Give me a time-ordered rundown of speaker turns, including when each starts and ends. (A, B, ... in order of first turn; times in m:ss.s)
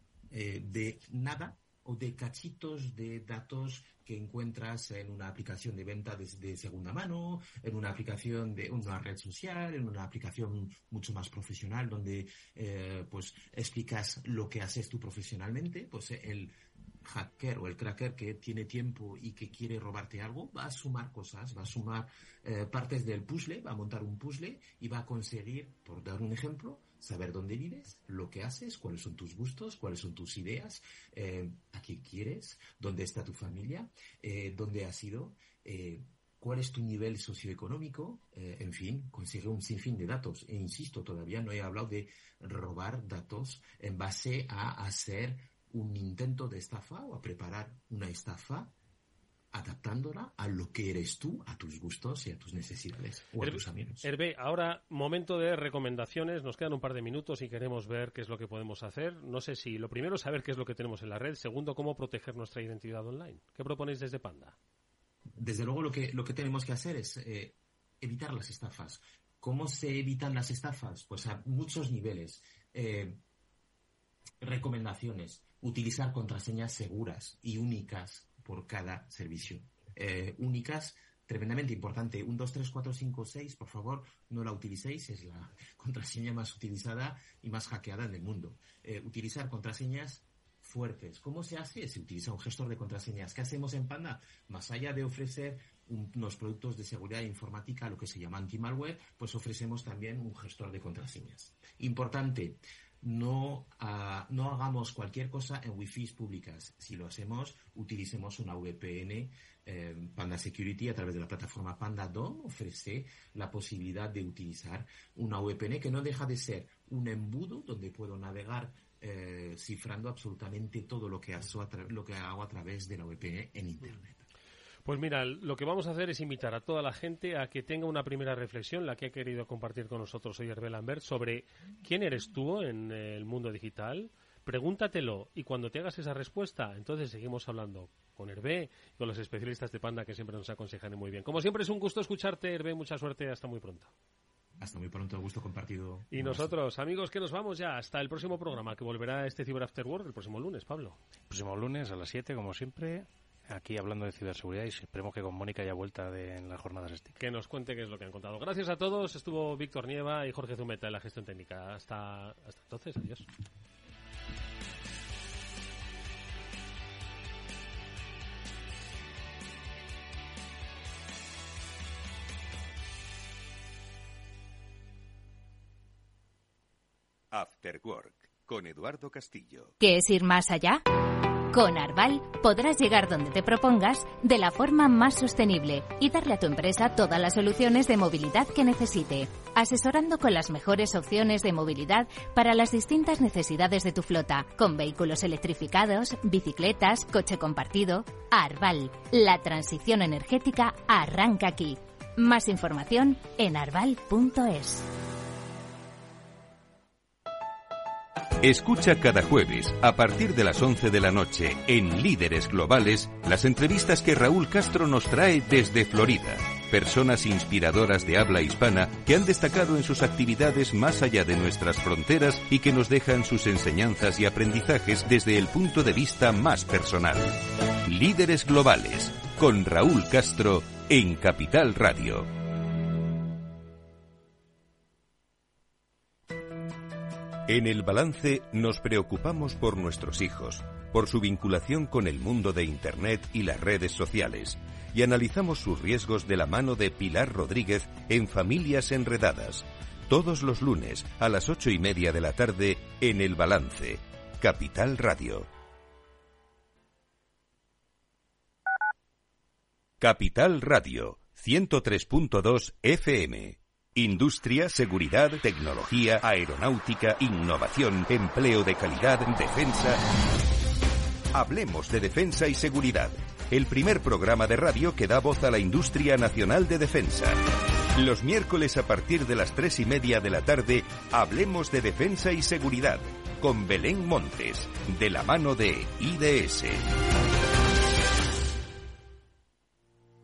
0:00.3-0:48.7 A
0:49.5-0:54.1 A
0:53.4-1:04.6 B
1:05.4-1:13.2 A
1:14.4-2:04.3 A
2:04.8-2:23.9 B
2:24.6-2:26.5 A
2:26.1-2:31.0 B
2:31.3-2:37.2 C
2:37.2-2:43.3 B
2:57.3-2:59.7 D
2:59.8-3:00.8 E
3:01.5-3:24.9 E
3:28.4-3:52.3 D
3:57.5-4:15.5 D
4:20.0-4:30.0 D
4:31.3-4:37.4 D
4:37.9-4:46.9 D